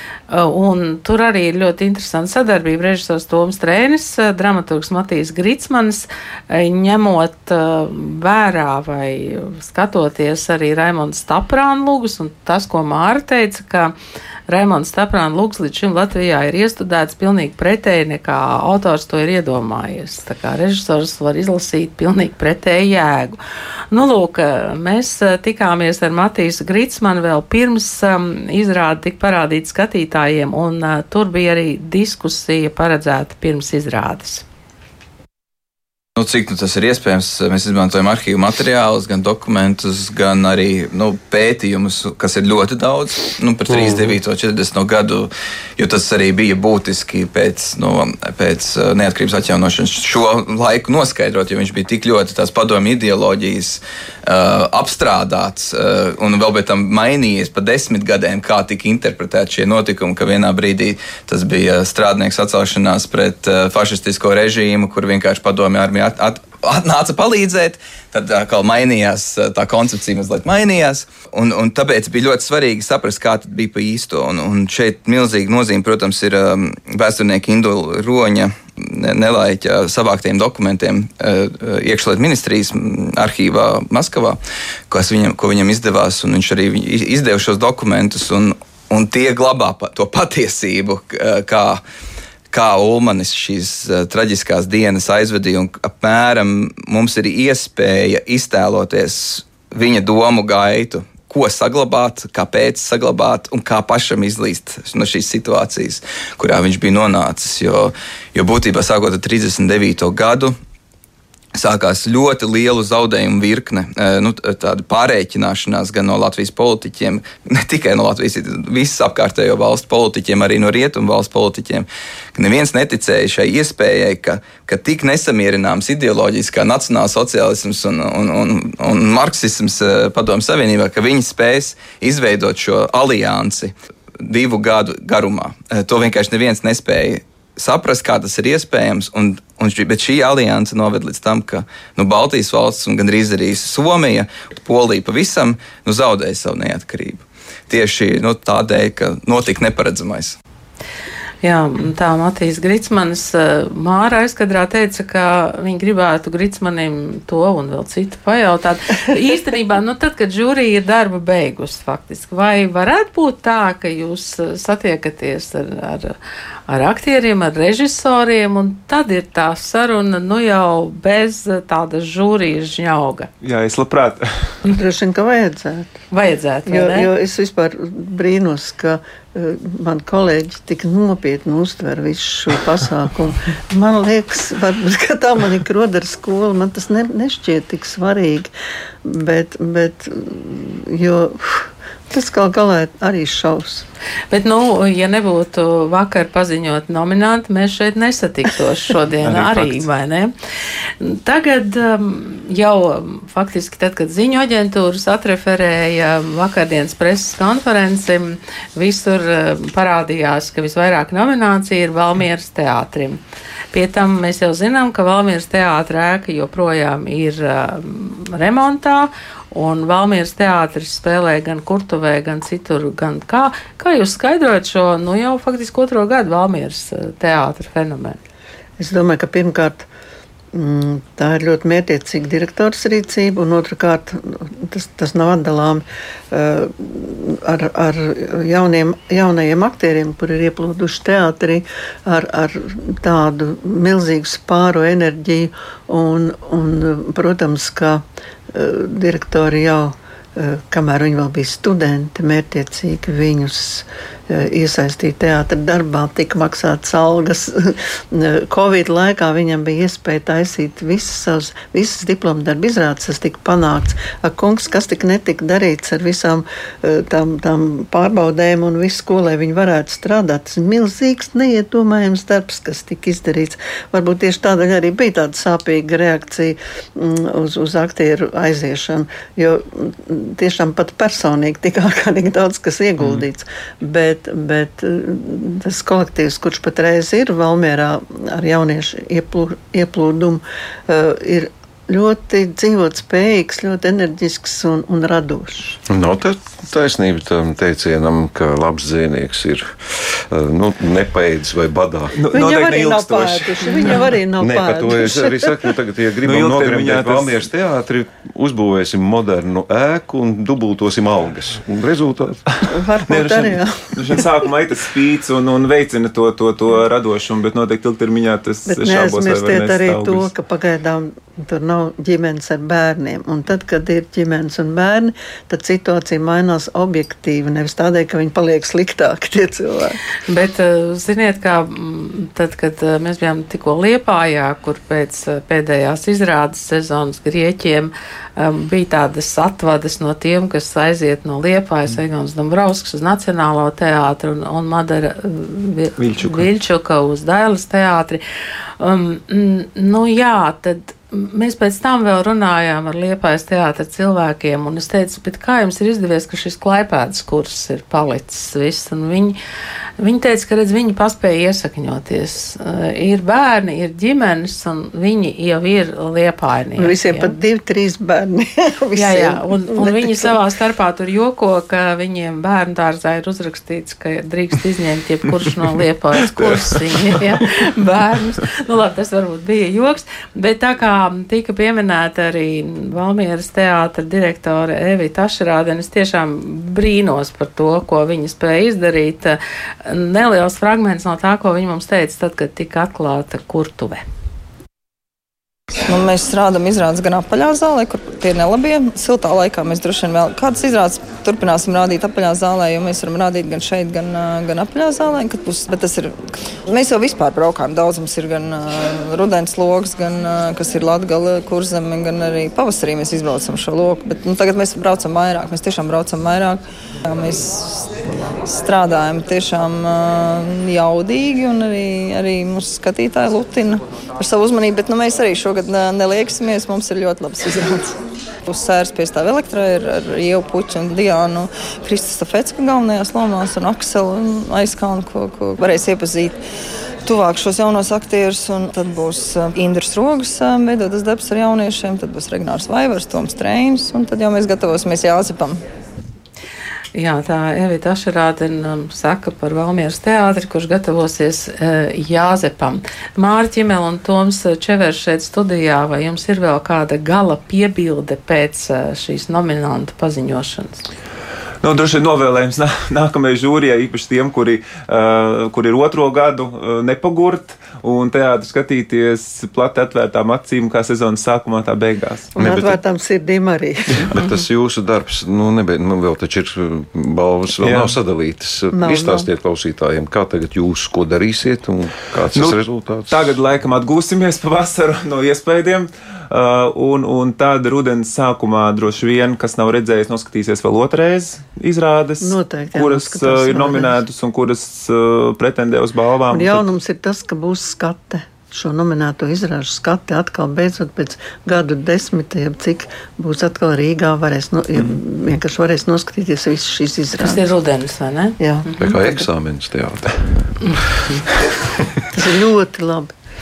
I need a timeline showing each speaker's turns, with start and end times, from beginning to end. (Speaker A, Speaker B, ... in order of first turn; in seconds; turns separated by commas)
Speaker A: 0.3-13.9, Speaker A: 14.5-23.4, Speaker A: 23.9-34.4, Speaker B: 36.2-84.4, Speaker B: 84.9-91.8, Speaker B: 92.5-110.5, Speaker B: 111.5-150.4, Speaker A: 151.4-166.1, Speaker A: 166.7-173.3, Speaker C: 173.4-174.3, Speaker D: 174.7-176.0, Speaker A: 176.1-177.1, Speaker D: 176.7-188.5, Speaker D: 189.0-193.9, Speaker A: 194.3-200.3, Speaker C: 199.2-199.8, Speaker A: 201.0-213.2, Speaker A: 213.7-228.2, Speaker D: 228.8-229.9, Speaker D: 230.5-295.8, Speaker E: 295.9-302.2, Speaker C: 302.2-303.5, Speaker D: 302.3-305.7, Speaker E: 304.4-312.4, Speaker C: 306.2-307.4, Speaker D: 312.7-314.2, Speaker C: 313.1-320.3, Speaker D: 318.7-330.0, Speaker A: 330.3-348.2, Speaker C: 346.0-346.5, Speaker A: 348.8-359.4, Speaker A: 360.0-367.3, Speaker D: 366.8-370.3, Speaker A: 368.9-394.0, Speaker C: 376.8-377.2, Speaker F: 395.9-406.1, Speaker F: 406.7-417.9, Speaker F: 418.4-427.9, Speaker F: 428.5-436.4, Speaker F: 437.0-445.6, Speaker A: 446.9-460.9, Speaker C: 461.6-472.3, Speaker E: 472.4-472.8, Speaker D: 472.4-474.0, Speaker E: 474.1-483.2, Speaker C: 477.6-477.9, Speaker D: 478.7-479.3, Speaker C: 483.1-496.6, Speaker D: 492.2-494.0, Speaker D: 496.3-507.4, Speaker A: 507.2-509.0, Speaker D: 508.4-508.6, Speaker E: 508.8-510.8, Speaker A: 510.6-511.2, Speaker D: 512.1-513.1